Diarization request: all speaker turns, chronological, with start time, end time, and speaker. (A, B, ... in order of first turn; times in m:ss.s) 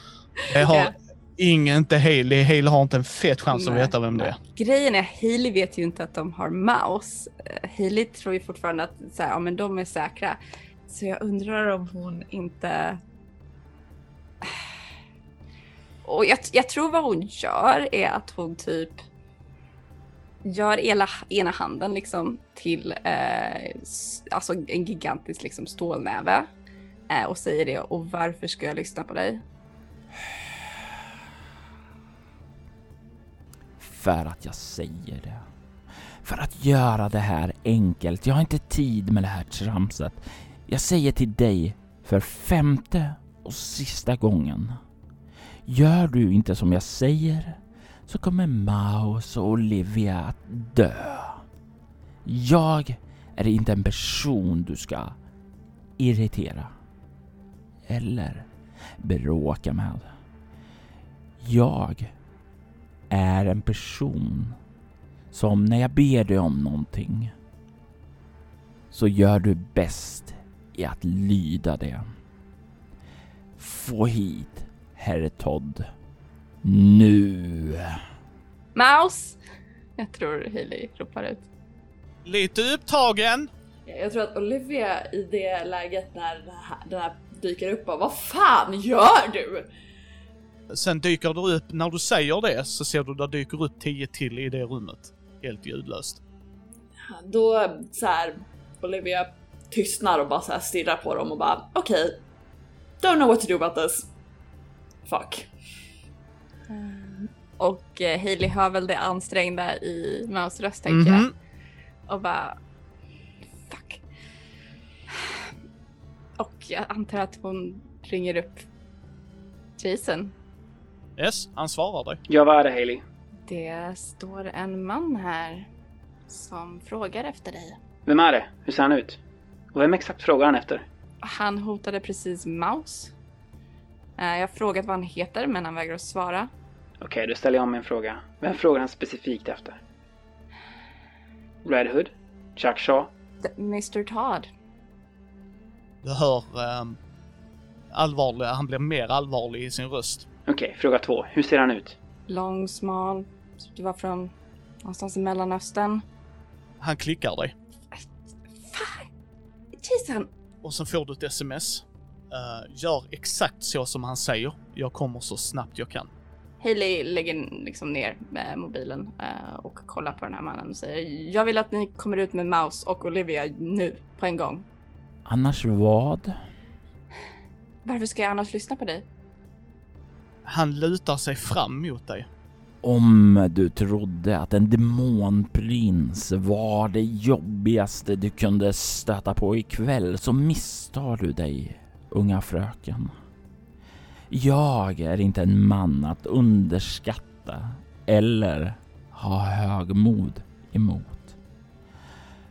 0:00.5-0:04.4 A
0:00.6-0:00.9 B
0:03.5-0:13.0 B
0:14.4-0:14.7 B
0:16.0-0:19.0 B
0:20.4-0:26.5 B
0:27.1-0:29.4 B
0:30.2-0:30.5 C
0:33.8-0:35.4 C
0:36.2-0:44.8 C
0:45.6-0:51.4 C
0:52.2-0:55.2 C
0:56.0-0:56.7 C
0:57.9-0:58.5 C
0:59.0-1:00.1 C
1:01.4-1:02.1 C
1:03.1-1:04.6 C
1:05.3-1:07.3 C
1:08.9-1:12.0 C
1:13.6-1:15.8 C
1:16.6-1:18.0 C
1:18.8-1:19.4 B
1:20.0-1:21.5 B
1:22.2-1:23.5 A
1:23.9-1:29.7 D
1:30.7-1:36.2 A
1:37.0-1:42.2 D
1:43.0-1:44.1 D
1:45.1-1:45.5 D
1:46.7-1:51.3 B
1:50.9-1:51.3 A
1:52.1-1:52.6 B
1:53.6-1:54.0 B
1:55.1-1:55.5 B
1:56.4-1:58.7 B
1:59.8-2:00.4 B
2:01.2-2:02.2 A
2:02.3-2:03.0 E
2:03.5-2:05.7 B
2:06.3-2:07.8 B
2:08.1-2:09.2 E
2:09.7-2:10.9 E
2:11.2-2:13.1 B
2:14.2-2:16.5 B
2:17.0-2:19.8 E
2:21.6-2:23.1 E
2:23.4-2:24.5 B
2:26.0-2:27.0 A
2:27.9-2:30.3 A
2:30.5-2:32.0 E
2:32.3-2:36.0 B
2:36.8-2:37.5 A
2:37.9-2:39.1 B
2:39.8-2:40.3 B
2:40.6-2:46.1 A
2:46.6-2:54.6 B
2:55.3-2:56.3 C
2:57.8-2:59.1 B
3:00.5-3:02.3 A
3:02.8-3:13.1 C
3:14.3-3:21.4 C